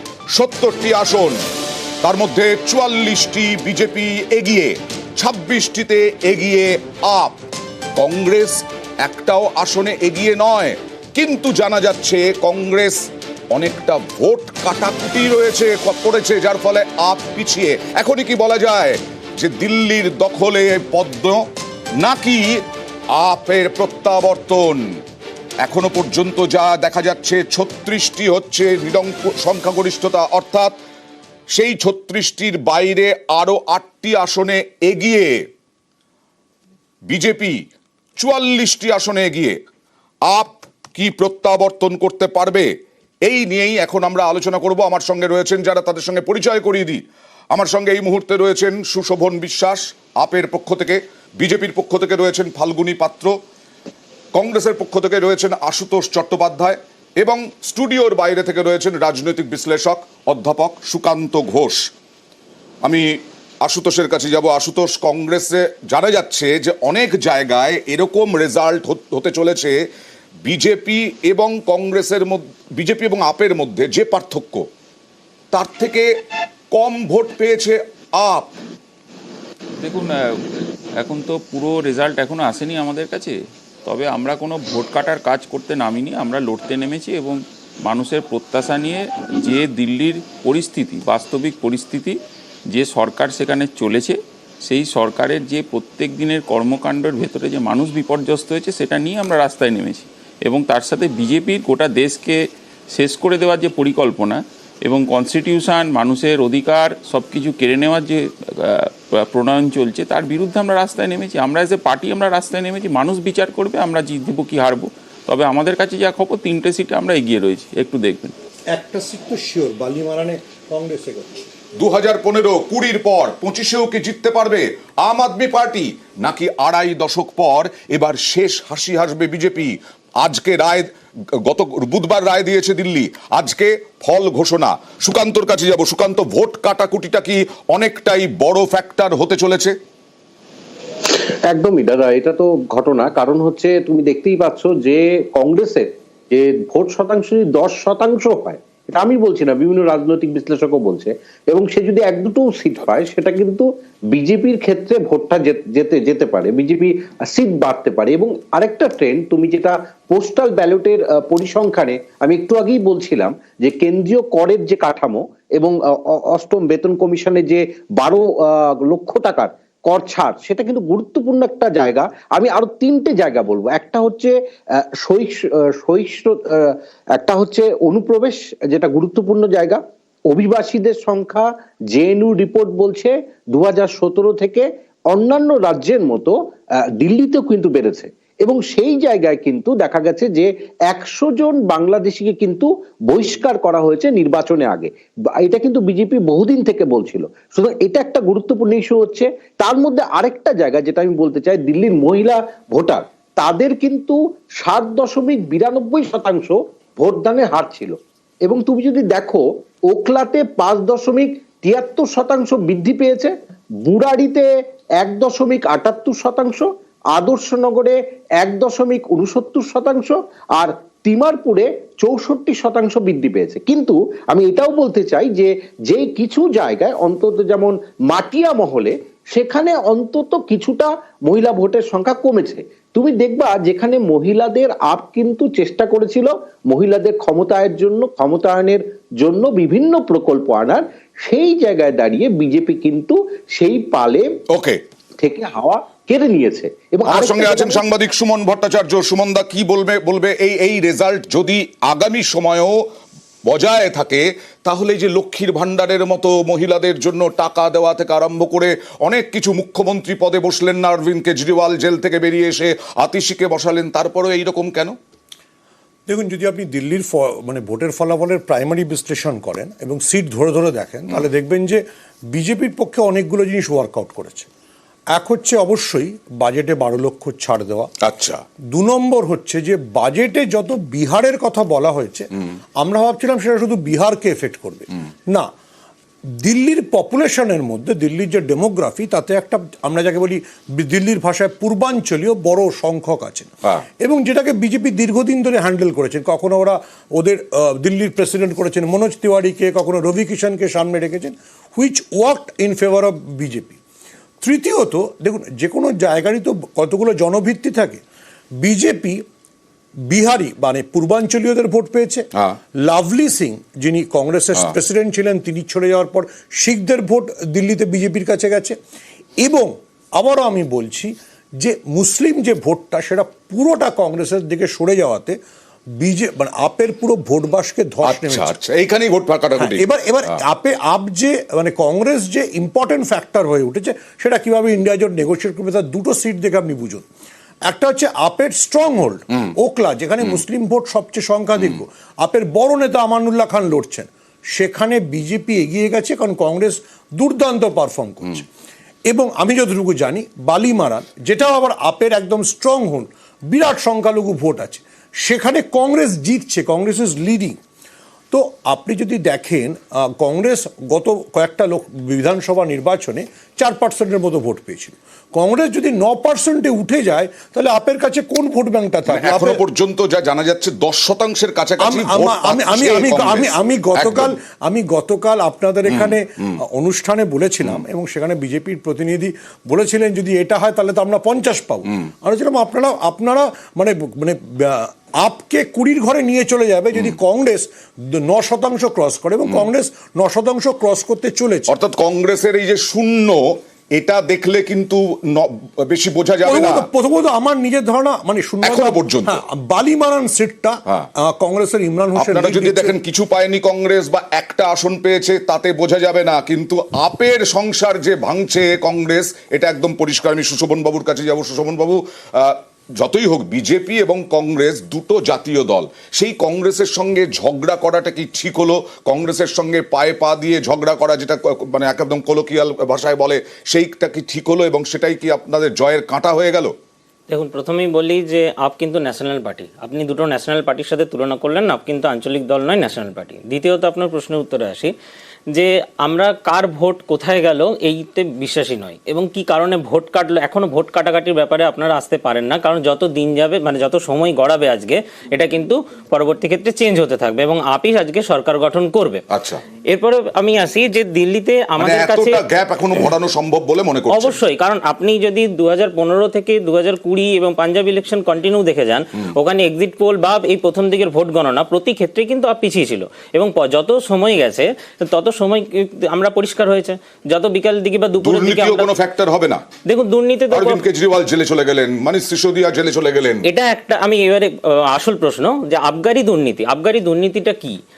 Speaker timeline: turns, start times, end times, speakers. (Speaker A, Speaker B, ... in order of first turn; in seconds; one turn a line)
Speaker A: 0.3-1.4
Speaker A: 2.0-7.4
Speaker A: 8.0-13.0
Speaker A: 13.5-21.4
Speaker A: 22.0-22.6
Speaker A: 23.1-24.9
Speaker A: 25.6-30.7
Speaker A: 31.5-35.4
Speaker A: 37.1-37.6
Speaker A: 38.2-39.6
Speaker A: 40.3-42.7
Speaker A: 43.3-47.0
Speaker A: 47.5-53.3
Speaker A: 54.4-61.9
Speaker A: 63.6-69.8
Speaker A: 70.5-74.7
Speaker A: 75.5-76.1
Speaker A: 76.7-78.5
Speaker B: 79.8-80.2
Speaker B: 81.0-92.2
Speaker B: 92.7-102.4
Speaker B: 102.9-118.3
Speaker C: 118.7-121.5
Speaker A: 121.8-130.9
Speaker A: 131.4-139.8
Speaker D: 141.4-174.3
Speaker D: 175.0-179.8
Speaker D: 180.3-186.3
Speaker D: 187.0-213.3
Speaker D: 213.8-214.5
Speaker D: 215.0-244.3
Speaker A: 244.5-244.8
Speaker D: 245.2-247.8
Speaker A: 247.1-252.8
Speaker A: 253.5-265.0
Speaker C: 266.1-274.5
Speaker C: 275.1-277.9
Speaker A: 278.0-278.4
Speaker C: 278.7-285.5
Speaker C: 286.4-303.8
Speaker C: 304.4-308.0
Speaker C: 308.6-309.2
Speaker C: 310.1-312.3
Speaker C: 312.8-318.8
Speaker C: 319.4-325.4
Speaker C: 326.0-328.5
Speaker A: 328.0-330.4
Speaker C: 329.6-337.1
Speaker C: 337.7-348.5
Speaker C: 349.1-357.6
Speaker C: 358.3-369.6
Speaker A: 369.1-374.4
Speaker C: 371.8-391.7
Speaker A: 375.9-376.1
Speaker A: 391.7-393.4
Speaker A: 394.0-396.9
Speaker C: 396.4-403.0
Speaker A: 398.6-399.4
Speaker A: 402.2-426.7
Speaker E: 427.3-434.9
Speaker E: 435.5-449.2
Speaker A: 449.3-449.6
Speaker E: 449.9-452.4
Speaker A: 451.8-454.4
Speaker E: 454.1-468.9
Speaker A: 468.2-469.6
Speaker E: 469.9-470.8
Speaker A: 470.5-473.4
Speaker E: 473.4-477.8